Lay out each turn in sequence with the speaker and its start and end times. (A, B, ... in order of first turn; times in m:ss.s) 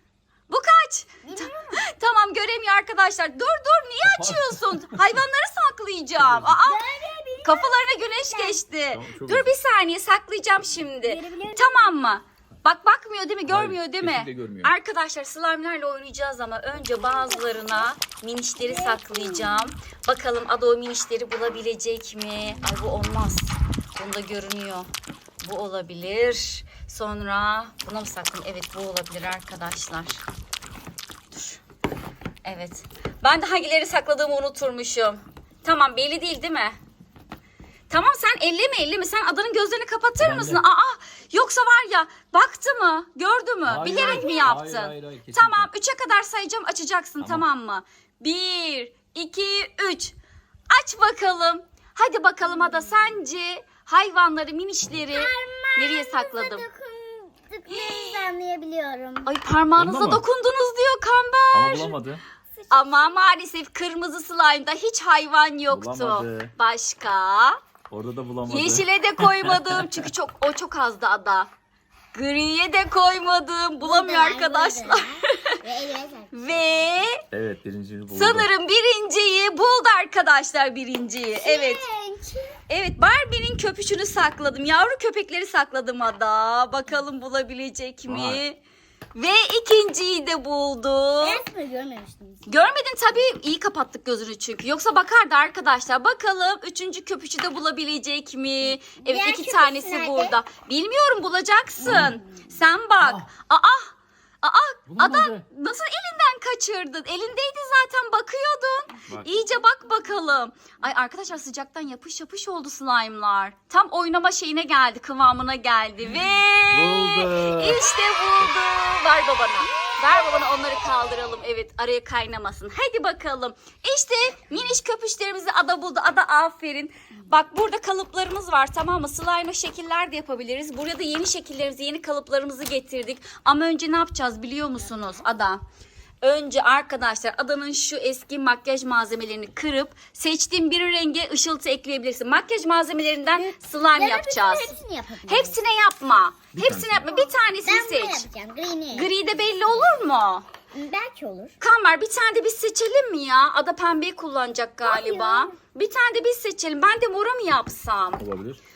0:00.5-0:06.8 A
0:01.2-0:01.8 B
0:04.0-0:05.2 C
0:06.2-0:06.6 C
0:06.6-0:08.6 B
0:07.4-0:24.9 A
0:08.9-0:09.6 C
0:11.0-0:11.7 B
0:13.5-0:14.7 C
0:16.9-0:17.9 B
0:18.6-0:19.7 B
0:25.4-0:30.2 A
0:31.3-0:31.6 A
0:32.4-0:36.8 A
0:37.9-0:50.2 A
0:40.2-0:40.6 C
0:43.6-0:45.7 C
0:43.9-0:44.6 B
0:47.2-0:47.5 C
0:50.7-0:56.6 A
0:55.1-0:59.3 B
0:57.7-0:58.2 A
0:59.3-1:02.0 A
0:59.8-1:00.2 C
1:01.5-1:02.2 C
1:02.6-1:03.1 B
1:02.7-1:07.6 A
1:05.7-1:06.5 C
1:07.9-1:10.1 C
1:08.5-1:11.5 A
1:12.1-1:15.5 A
1:13.8-1:17.1 B
1:16.3-1:17.2 A
1:17.3-1:18.5 C
1:18.1-1:21.8 A
1:21.4-1:22.6 B
1:22.7-1:28.6 A
1:28.1-1:28.4 C
1:29.2-1:31.4 A
1:31.2-1:32.6 B
1:32.5-1:43.9 A
1:39.0-1:40.4 B
1:41.8-1:42.2 B
1:41.8-1:42.2 C
1:43.0-1:43.3 C
1:44.4-2:15.6 A
1:44.9-1:45.4 C
1:56.1-1:57.9 C
2:16.2-2:24.7 A
2:23.4-2:25.6 B
2:25.3-2:28.3 A
2:26.5-2:27.1 C
2:27.1-2:29.1 B
2:28.9-2:30.5 A
2:30.7-2:31.6 B
2:31.6-2:38.2 A
2:34.8-2:35.5 B
2:38.2-2:38.6 C